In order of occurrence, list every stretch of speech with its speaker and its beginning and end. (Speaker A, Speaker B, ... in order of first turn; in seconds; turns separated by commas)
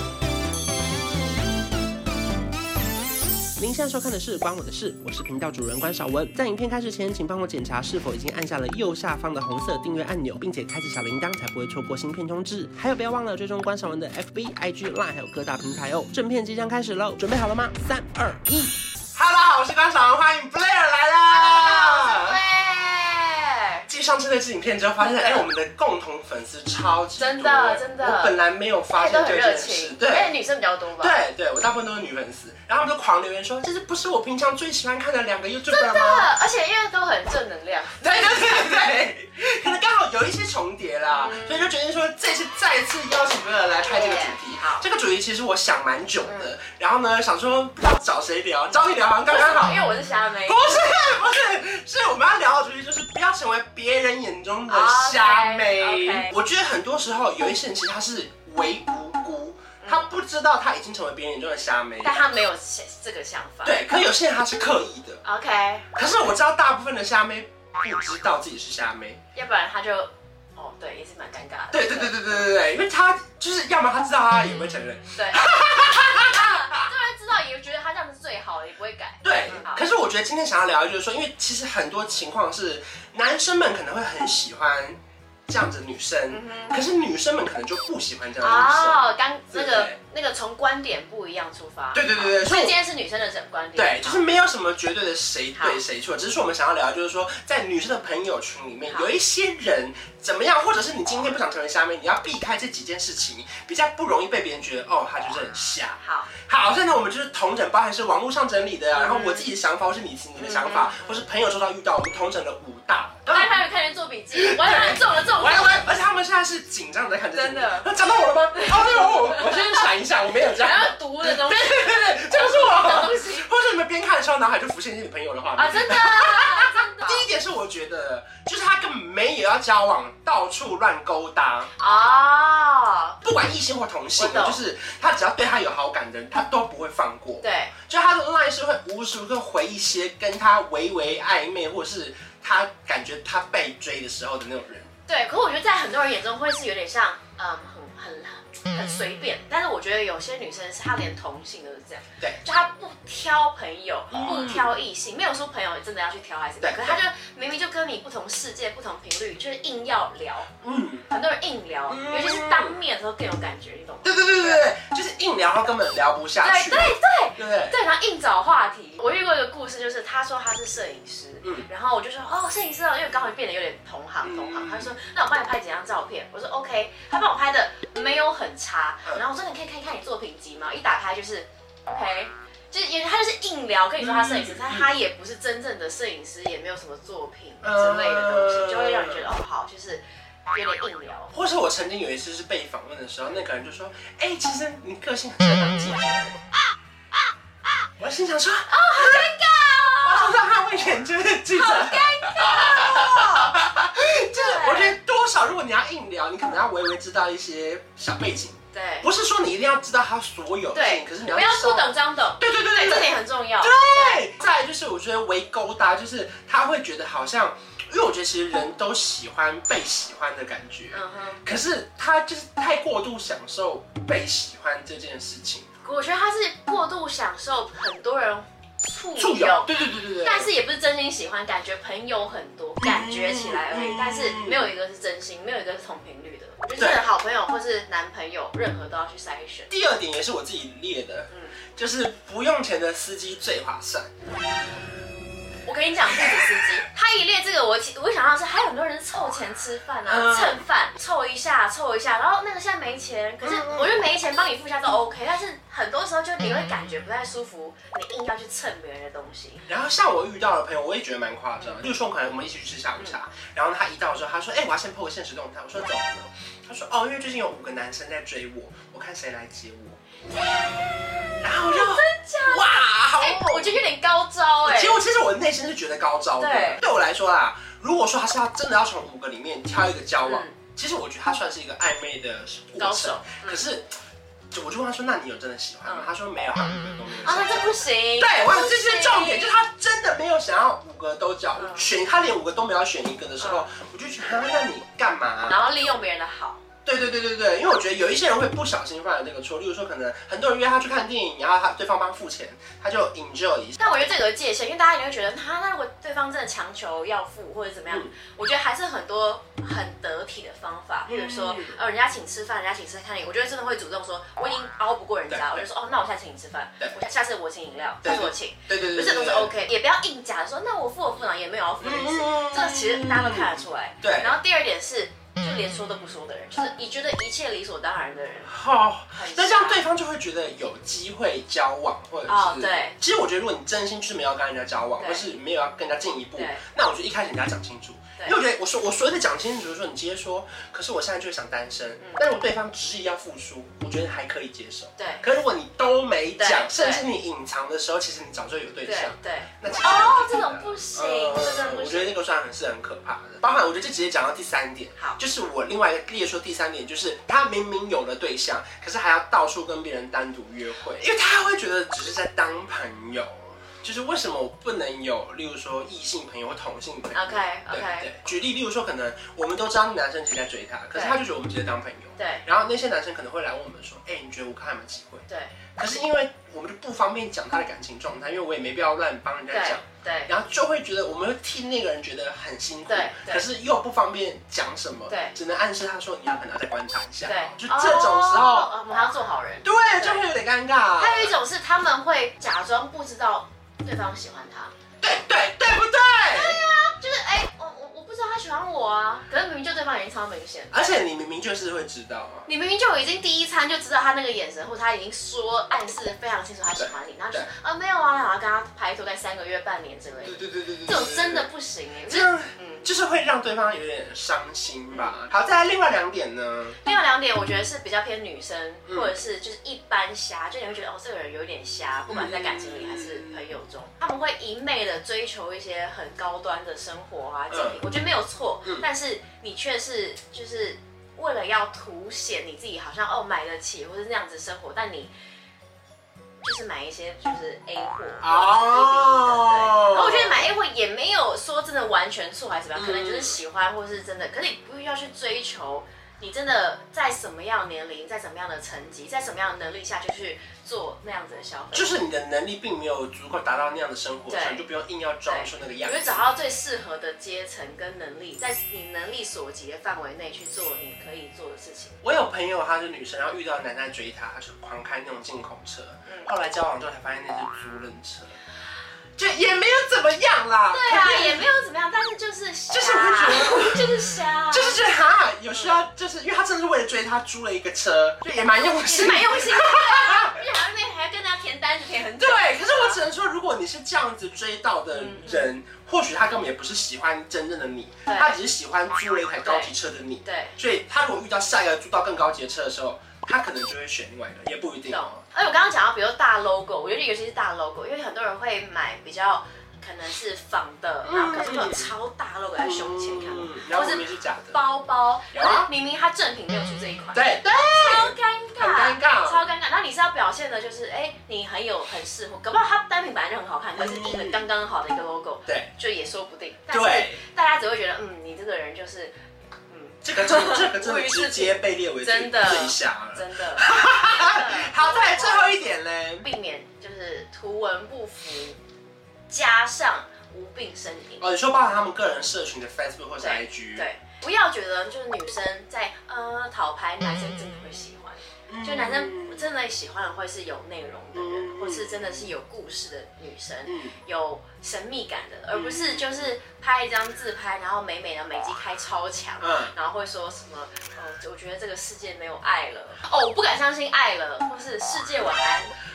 Speaker A: 3.6-22.4, Speaker B: 21.3-23.9, Speaker A: 23.9-30.4, Speaker B: 25.0-25.5, Speaker B: 27.2-28.4, Speaker B: 28.9-31.2, Speaker A: 31.0-36.3, Speaker B: 35.7-38.7, Speaker A: 38.0-49.9, Speaker B: 41.1-41.7, Speaker B: 43.8-44.8, Speaker B: 46.2-46.5, Speaker B: 49.3-50.9, Speaker A: 50.4-62.2, Speaker B: 54.7-56.3, Speaker B: 59.8-60.1, Speaker B: 62.0-63.8, Speaker A: 63.6-65.2, Speaker B: 65.2-65.9, Speaker A: 65.9-69.2, Speaker B: 69.3-72.4, Speaker A: 71.7-76.8, Speaker B: 75.1-79.8, Speaker A: 79.2-89.9, Speaker B: 86.3-86.8, Speaker B: 88.4-94.2, Speaker A: 91.9-92.8, Speaker A: 93.8-113.6, Speaker B: 95.5-95.8, Speaker B: 106.0-106.3, Speaker B: 108.9-109.5, Speaker B: 110.4-111.3, Speaker B: 113.2-115.9, Speaker A: 114.3-131.7, Speaker B: 117.3-117.9, Speaker B: 118.5-123.5, Speaker B: 125.6-127.2, Speaker B: 131.8-133.2, Speaker A: 133.2-144.9, Speaker B: 134.2-134.6, Speaker B: 137.4-137.7, Speaker B: 145.1-160.5, Speaker A: 154.1-154.7, Speaker A: 156.6-157.0, Speaker A: 160.6-161.1, Speaker B: 161.1-164.7, Speaker A: 161.9-162.8, Speaker A: 164.0-167.8, Speaker B: 166.4-191.3, Speaker A: 171.4-171.7, Speaker A: 174.2-174.9, Speaker A: 184.0-184.9, Speaker A: 187.6-189.3, Speaker A: 191.3-196.4, Speaker A: 198.0-199.3, Speaker B: 198.7-200.4, Speaker A: 200.0-225.7, Speaker B: 201.5-203.6, Speaker B: 204.3-204.9, Speaker B: 208.7-209.1, Speaker B: 210.7-214.2, Speaker B: 220.9-221.4, Speaker B: 225.8-239.7, Speaker A: 229.2-230.5, Speaker A: 232.8-234.7, Speaker A: 236.8-237.1, Speaker A: 239.7-244.1, Speaker B: 241.3-241.6, Speaker B: 245.6-259.6, Speaker A: 246.1-246.5, Speaker A: 250.1-250.7, Speaker A: 253.4-253.9, Speaker A: 259.7-270.0, Speaker B: 270.3-272.6, Speaker A: 271.4-273.8, Speaker B: 273.1-275.0, Speaker A: 274.6-283.9, Speaker B: 276.4-276.8, Speaker B: 280.2-280.6, Speaker B: 282.8-283.6, Speaker A: 284.5-287.6, Speaker B: 287.2-289.6, Speaker A: 288.2-295.6, Speaker B: 291.6-291.8, Speaker B: 293.4-293.6, Speaker B: 295.5-296.6, Speaker A: 296.8-303.8, Speaker B: 303.8-328.5, Speaker A: 311.1-311.8, Speaker A: 315.3-315.6, Speaker A: 318.0-319.5, Speaker A: 321.8-324.4, Speaker A: 328.5-375.2, Speaker B: 329.1-329.8, Speaker B: 332.2-332.9, Speaker B: 335.0-335.2, Speaker B: 336.4-336.6, Speaker B: 345.0-345.2, Speaker B: 346.4-347.1, Speaker B: 348.8-352.1, Speaker B: 367.1-368.1, Speaker B: 372.2-372.4, Speaker B: 375.3-375.5, Speaker A: 375.8-388.8, Speaker B: 379.5-380.3, Speaker B: 382.9-383.4, Speaker B: 385.1-385.4, Speaker B: 387.2-390.2, Speaker A: 389.6-391.3, Speaker B: 391.0-394.7, Speaker A: 395.0-396.6, Speaker B: 396.3-400.7, Speaker A: 400.7-402.5, Speaker B: 402.5-412.9, Speaker A: 406.8-407.5, Speaker A: 410.2-411.5, Speaker A: 412.1-416.8, Speaker B: 416.8-435.1, Speaker A: 418.9-419.1, Speaker A: 422.1-423.5, Speaker A: 427.5-427.8, Speaker B: 436.4-452.0, Speaker A: 438.2-440.5, Speaker A: 442.7-443.4, Speaker A: 451.7-456.2, Speaker B: 454.3-454.6, Speaker B: 455.3-462.0, Speaker A: 462.0-468.3, Speaker A: 469.2-471.4, Speaker B: 470.7-474.8, Speaker A: 472.7-473.8, Speaker A: 474.5-480.4, Speaker B: 478.8-483.0, Speaker A: 482.2-495.2, Speaker B: 484.9-485.5, Speaker B: 488.1-488.4, Speaker B: 489.4-489.7, Speaker B: 490.2-490.6, Speaker B: 494.9-519.1, Speaker A: 501.0-501.9, Speaker A: 502.6-504.6, Speaker A: 505.3-505.7, Speaker A: 507.1-509.4, Speaker A: 513.8-514.5, Speaker A: 516.7-517.2, Speaker B: 519.7-528.6, Speaker A: 520.0-526.3, Speaker B: 529.3-531.3, Speaker A: 531.2-533.9, Speaker B: 533.2-555.7, Speaker A: 538.5-539.5, Speaker A: 541.1-542.3, Speaker A: 543.6-544.0, Speaker A: 545.5-546.1, Speaker A: 549.4-549.7